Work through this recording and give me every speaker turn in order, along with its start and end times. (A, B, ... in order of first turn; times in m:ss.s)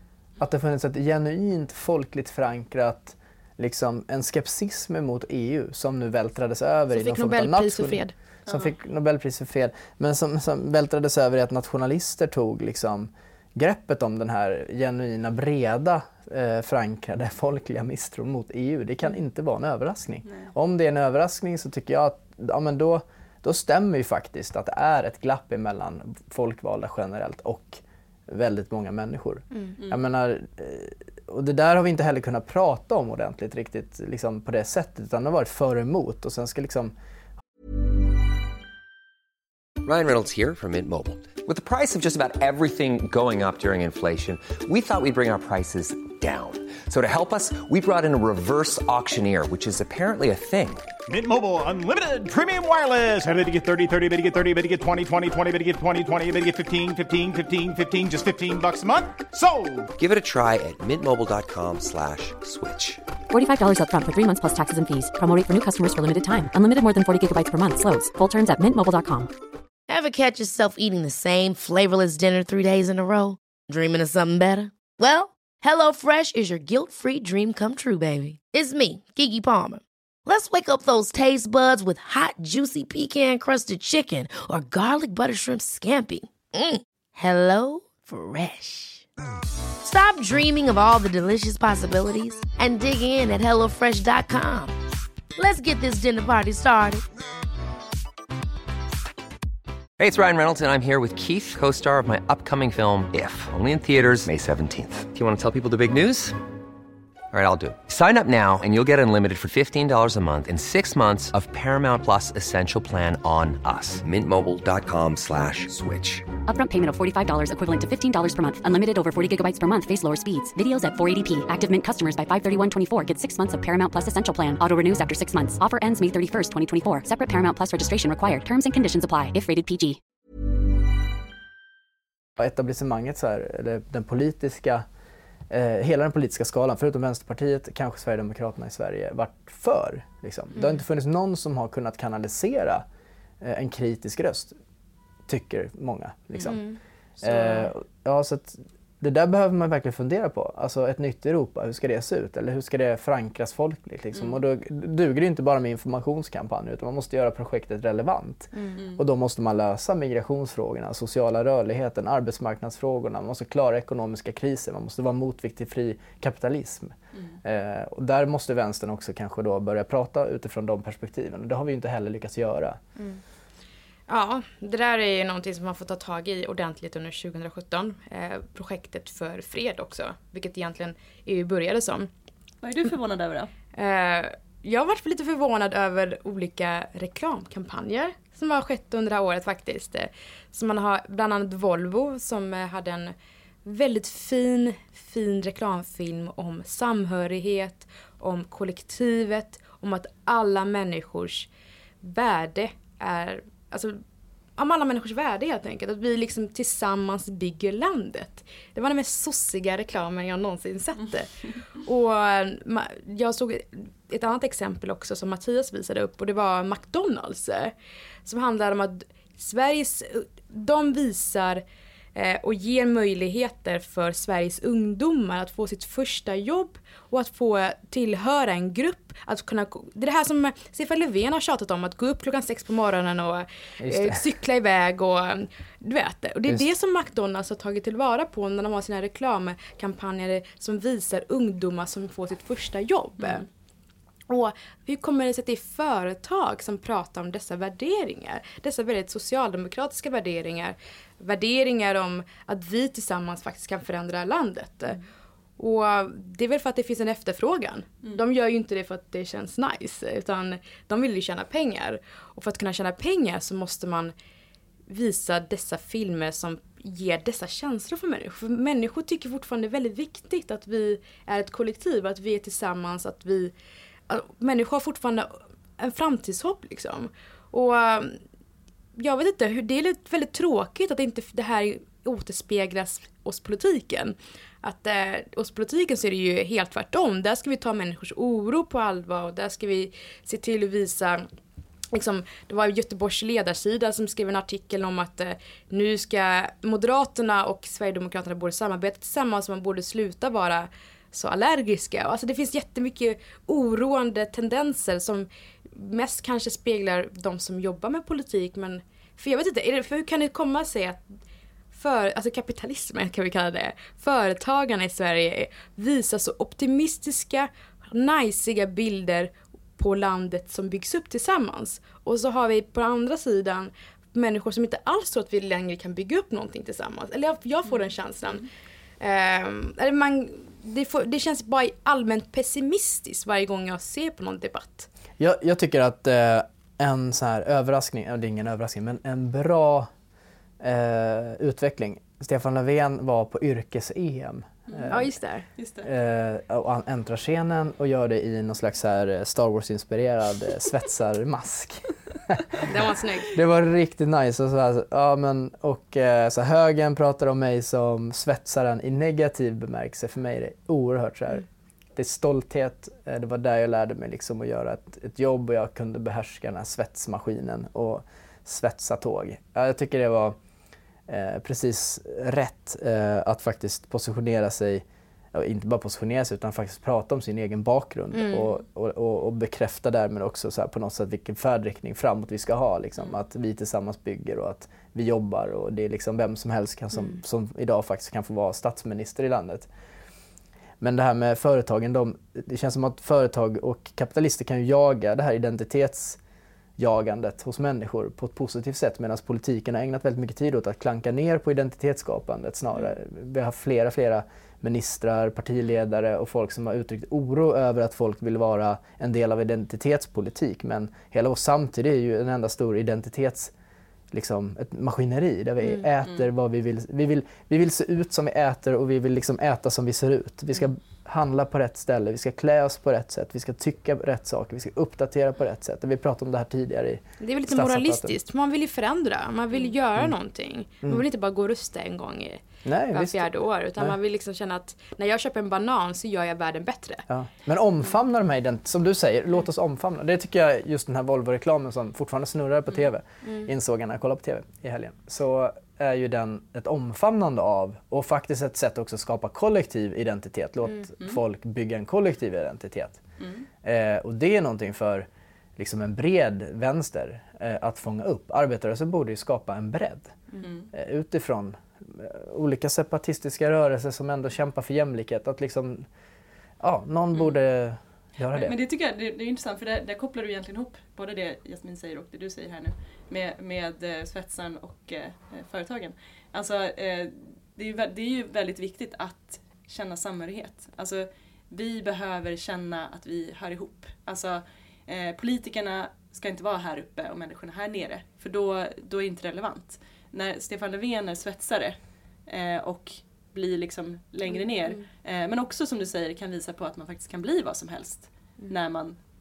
0:00.4-0:36.9 A
0:06.9-0:08.1 B
0:08.5-0:08.7 C
0:39.8-0:50.9 D
0:51.1-0:59.9 E
1:00.0-1:03.0 D
1:03.3-1:09.3 F
1:09.9-1:29.1 G
1:29.8-1:34.7 G
1:35.4-1:37.0 G
1:40.0-1:46.4 D
1:47.3-1:56.3 D
1:56.5-2:10.0 F
2:12.4-2:14.8 A
2:15.5-2:22.8 A
2:23.4-2:24.5 A
2:25.3-2:26.6 A
2:26.4-2:27.7 B
2:27.2-2:52.8 A
2:34.1-2:34.4 C
2:54.1-3:02.1 B
3:02.6-3:03.5 C
3:03.7-3:13.1 B
3:13.6-3:21.5 B
3:22.0-3:24.0 B
3:24.6-3:37.7 B
3:38.2-3:41.6 B
3:42.1-4:03.4 B
3:53.8-3:54.2 A
4:04.3-4:15.0 B
4:15.6-4:24.1 B
4:24.9-4:33.5 B
4:34.1-4:38.2 B
4:39.0-4:51.3 B
4:51.9-5:11.0 B
5:11.7-5:28.4 B
5:29.0-5:34.9 B
5:35.2-5:39.9 A
5:40.6-5:45.1 A
5:44.7-5:45.9 C
5:44.9-5:45.4 B
5:45.8-5:52.7 A
5:52.6-5:53.3 B
5:53.3-6:10.4 A
6:11.1-6:29.7 A
6:18.1-6:18.5 B
6:30.8-6:36.2 A
6:36.8-6:53.5 A
6:54.1-7:08.2 A
6:55.6-6:55.9 B
7:07.2-7:17.0 B
7:12.6-7:13.9 A
7:17.1-7:33.0 A
7:23.2-7:23.5 B
7:33.2-7:33.5 C
7:33.6-7:40.2 A
7:40.4-7:40.7 C
7:40.7-7:45.9 A
7:46.6-7:48.6 A
7:48.3-8:19.0 C
8:14.3-8:14.8 B